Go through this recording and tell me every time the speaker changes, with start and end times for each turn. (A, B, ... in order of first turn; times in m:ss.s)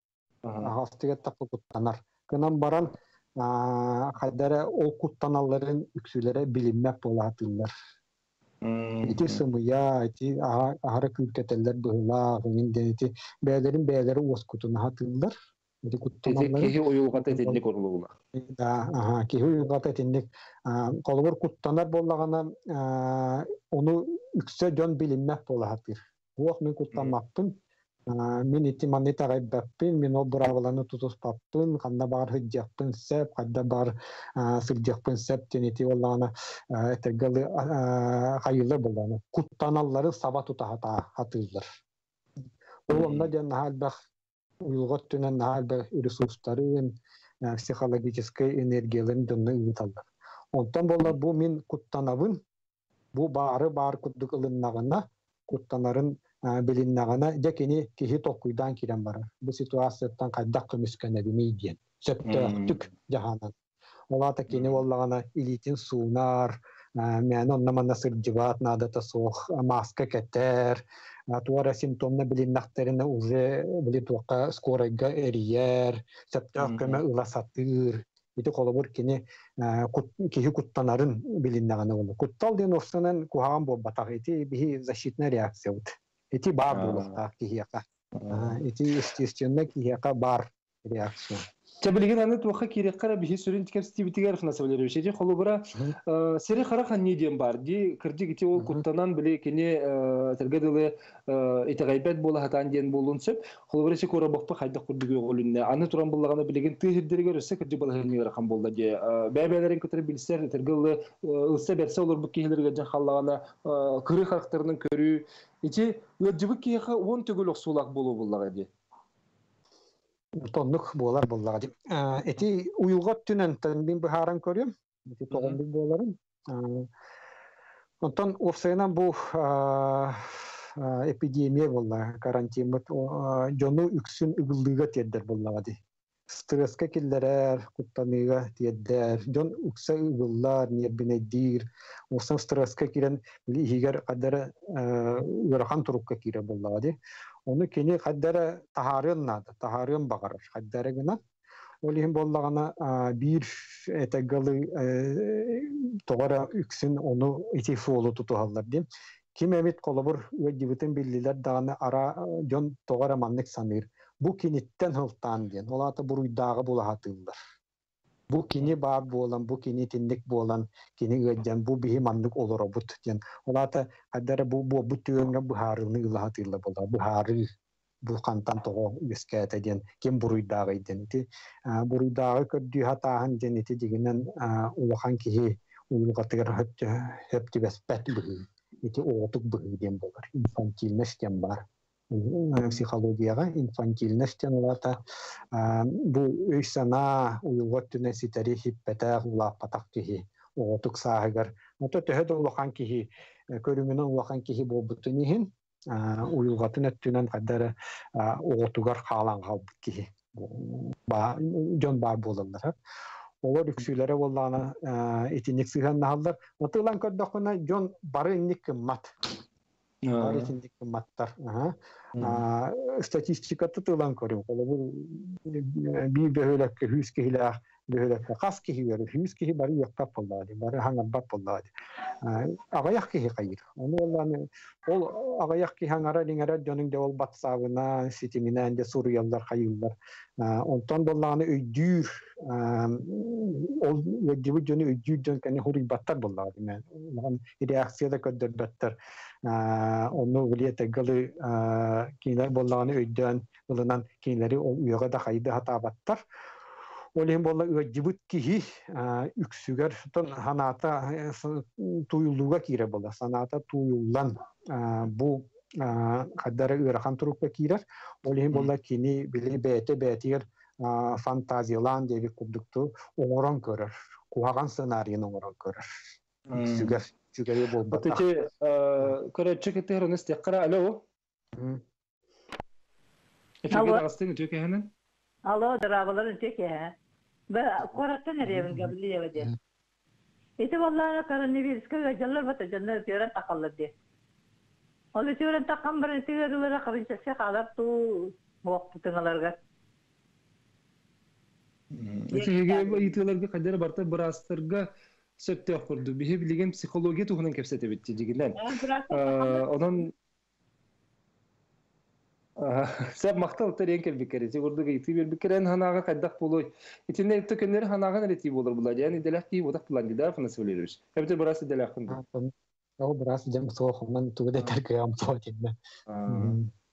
0:00.4-0:00.7 A
0:00.6-0:07.7 B
0:08.6-0:09.4 A
0:09.0-0:17.6 B
0:16.2-0:18.1 A
0:18.3-0:41.7 B
0:42.9-0:44.0 B
0:42.9-0:43.3 A
0:44.6-0:52.4 B
0:53.1-1:03.5 B
1:02.2-1:02.9 A
1:04.1-1:31.4 B
1:04.5-1:04.8 A
1:16.6-1:17.0 A
1:26.7-1:27.2 A
1:28.2-1:28.6 A
1:31.8-1:58.7 A
1:38.6-1:38.8 B
2:00.4-2:06.9 B
2:05.3-2:05.6 A
2:08.0-2:27.0 B
2:27.5-2:31.2 B
2:31.8-2:47.4 B
2:48.3-2:57.5 B
2:58.0-3:15.0 B
3:15.5-3:32.8 B
3:33.4-3:39.1 B
3:40.0-3:40.5 A
3:40.2-3:51.7 B
3:42.2-3:42.4 A
3:52.2-4:16.2 B
4:17.2-4:35.9 B
4:36.5-4:37.0 A
4:36.6-4:38.2 B
4:37.9-4:41.0 A
4:41.6-4:41.8 B
4:43.6-4:44.9 A
4:43.7-4:44.0 C
4:45.5-4:46.9 C
4:47.5-4:49.5 C
4:48.4-4:48.9 B
4:50.6-4:53.9 C
4:55.2-4:59.6 C
5:01.9-5:04.9 A
5:02.3-5:03.2 C
5:05.4-5:10.1 A
5:08.6-5:09.7 C
5:12.6-5:22.2 A
5:22.1-5:25.8 B
5:26.1-5:26.6 A
5:26.3-5:26.7 B